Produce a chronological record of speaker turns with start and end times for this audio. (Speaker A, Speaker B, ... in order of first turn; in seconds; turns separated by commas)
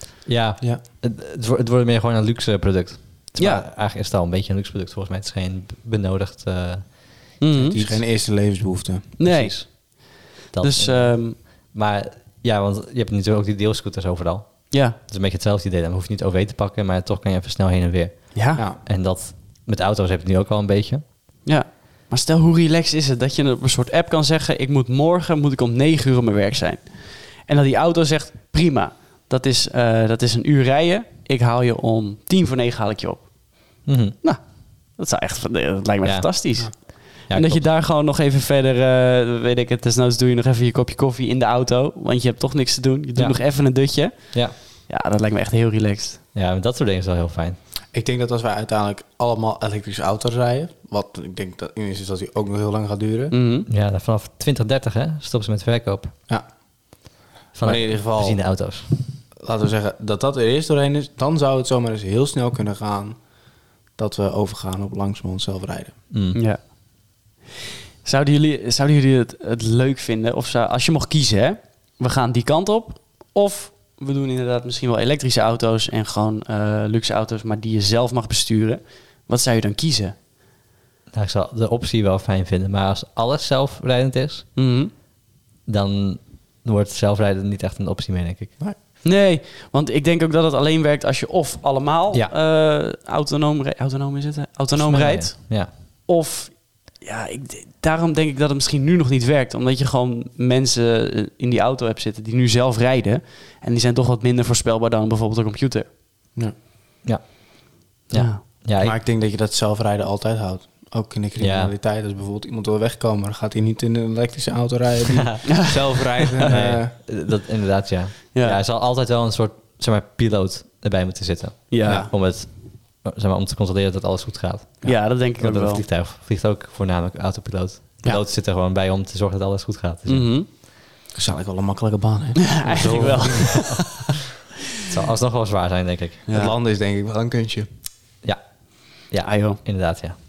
Speaker A: 0.3-7.8, Speaker B: 3.4-3.6, Speaker B: 7.4-7.9, Speaker C: 7.6-9.2, Speaker B: 9.2-11.4, Speaker A: 9.2-9.7, Speaker A: 10.5-21.0, Speaker B: 14.7-15.0, Speaker B: 18.3-18.6, Speaker B: 21.5-34.4, Speaker A: 33.9-34.2, Speaker B: 35.0-46.2, Speaker A: 36.0-37.6, Speaker A: 46.3-47.6, Speaker C: 47.9-53.3, Speaker B: 53.3-53.7, Speaker A: 53.7-56.1, Speaker A: 57.5-58.9, Speaker C: 57.6-58.4, Speaker C: 59.4-63.2, Speaker C: 64.0-66.0, Speaker A: 66.1-66.4, Speaker B: 66.3-66.7, Speaker B: 68.0-80.2, Speaker A: 81.1-84.5, Speaker B: 84.6-84.9, Speaker A: 85.7-88.5, Speaker B: 89.0-105.9, Speaker A: 94.8-95.7, Speaker A: 107.0-109.0, Speaker B: 108.1-108.4, Speaker C: 108.8-117.0, Speaker A: 111.4-111.7, Speaker B: 115.5-116.5, Speaker A: 116.5-130.4, Speaker B: 118.3-118.6, Speaker B: 121.7-122.1, Speaker B: 124.8-125.8, Speaker B: 130.1-130.5, Speaker C: 131.1-133.8, Speaker B: 132.4-134.1, Speaker A: 134.9-136.3, Speaker B: 136.3-136.5, Speaker C: 136.3-137.7, Speaker A: 138.2-140.2, Speaker B: 139.2-139.6